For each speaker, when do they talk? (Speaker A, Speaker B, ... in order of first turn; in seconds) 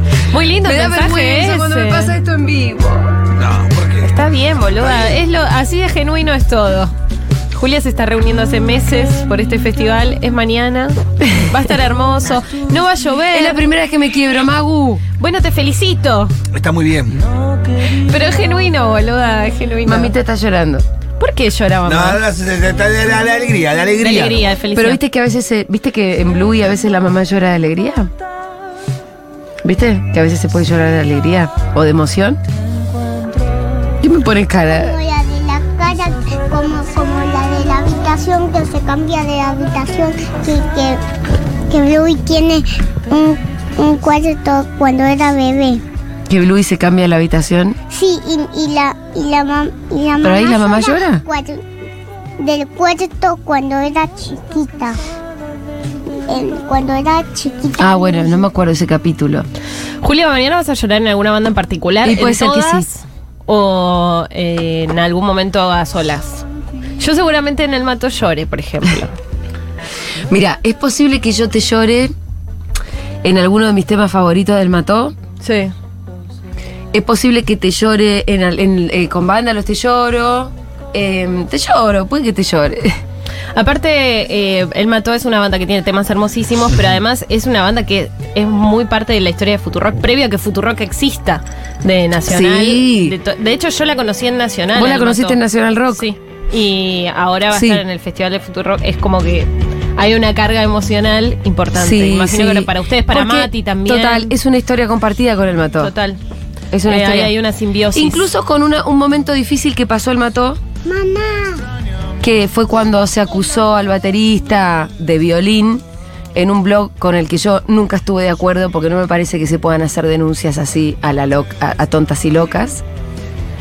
Speaker A: 0.3-2.1, 4.0-6.9, 7.5-13.6, 15.2-16.3, 17.9-20.1, 21.2-22.2, 24.0-25.0, 60.0-66.4, 67.0-69.1, 75.4-75.7, 83.5-95.4, 95.9-104.3, 105.8-106.2, 106.9-108.2
Speaker B: 0.6-3.2, 13.3-15.0, 19.8-20.8, 24.7-28.1, 29.6-32.4, 34.0-35.0, 46.3-47.8, 50.2-51.2, 57.8-59.5, 62.0-62.9, 70.3-72.1, 73.2-75.1, 76.9-82.9, 92.2-93.1, 94.7-96.0, 97.5-97.8, 101.7-105.9, 106.7-107.3, 107.9-110.6, 112.2-115.8, 116.3-122.8
Speaker C: 3.4-4.1, 4.8-5.2, 16.5-17.2, 21.8-24.5
Speaker D: 34.7-41.0, 41.7-45.8, 47.9-51.6, 52.4-55.0, 56.2-58.2, 110.8-111.6